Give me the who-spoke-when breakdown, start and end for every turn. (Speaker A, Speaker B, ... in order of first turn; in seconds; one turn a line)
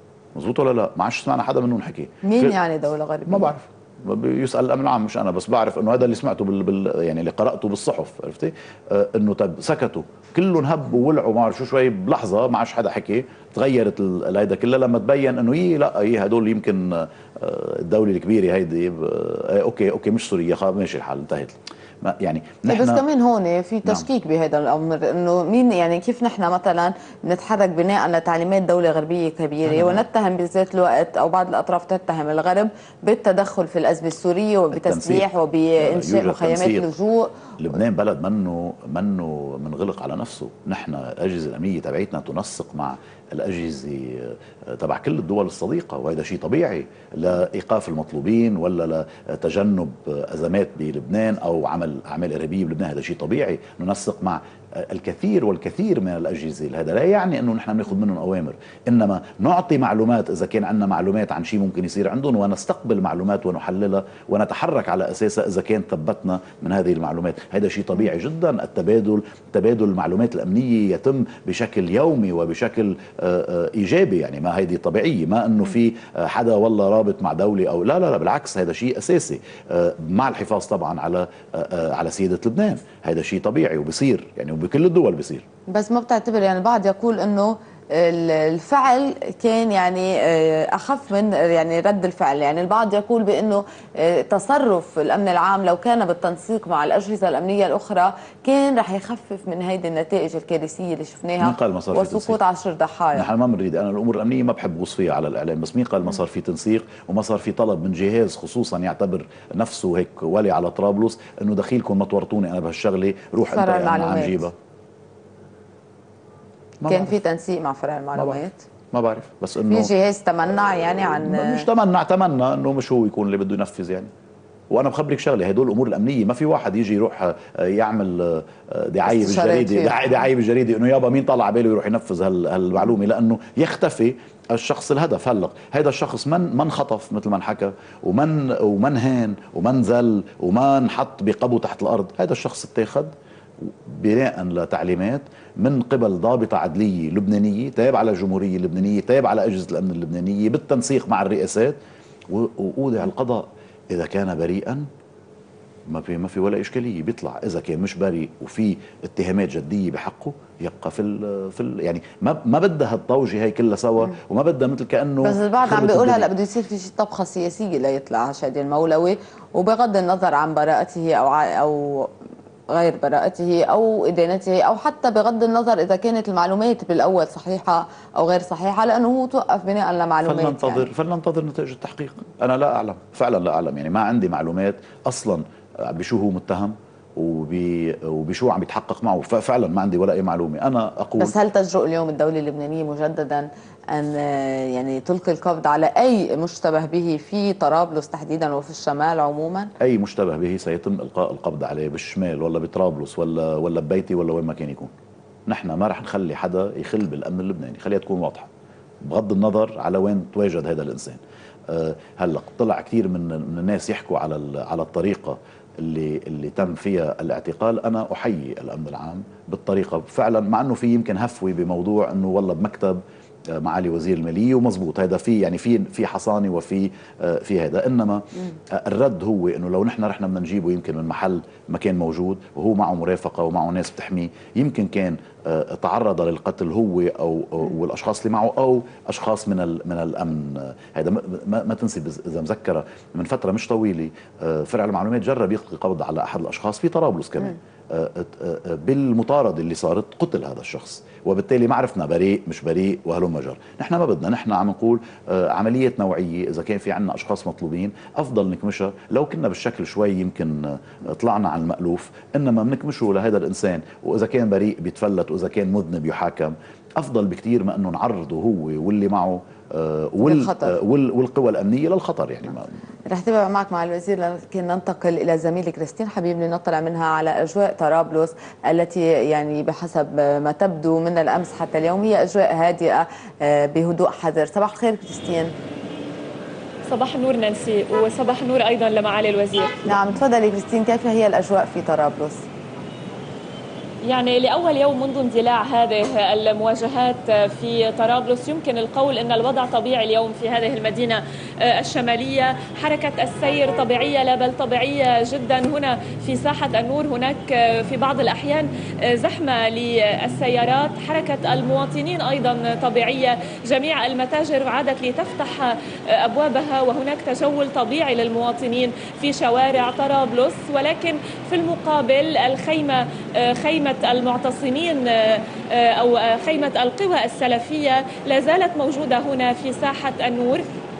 Speaker A: 0.3-2.5
Speaker B: 2.2-3.5
Speaker A: 3.3-23.0
Speaker B: 22.7-37.4
Speaker A: 29.6-30.0
Speaker A: 34.7-35.3
Speaker A: 35.8-36.9
Speaker A: 37.6-85.4
Speaker B: 85.7-103.3
Speaker A: 101.4-102.4
Speaker A: 103.1-114.5
Speaker B: 113.5-114.4
Speaker A: 116.8-117.2
Speaker B: 116.9-118.7
Speaker A: 118.9-119.9
Speaker B: 119.7-121.7
Speaker A: 120.5-124.1
Speaker A: 124.7-151.8
Speaker B: 129.0-130.1
Speaker A: 152.3-154.9
Speaker A: 155.9-166.3
Speaker B: 165.2-172.1
Speaker B: 172.7-180.9
Speaker A: 180.2-191.3
Speaker B: 191.2-199.7
Speaker A: 199.8-204.9
Speaker A: 205.5-208.5
Speaker A: 209.0-223.0
Speaker A: 223.5-272.7
Speaker B: 270.2-270.7
Speaker B: 273.1-285.5
Speaker C: 286.9-289.9
Speaker B: 289.9-292.4
Speaker A: 289.9-290.2
Speaker C: 294.1-330.7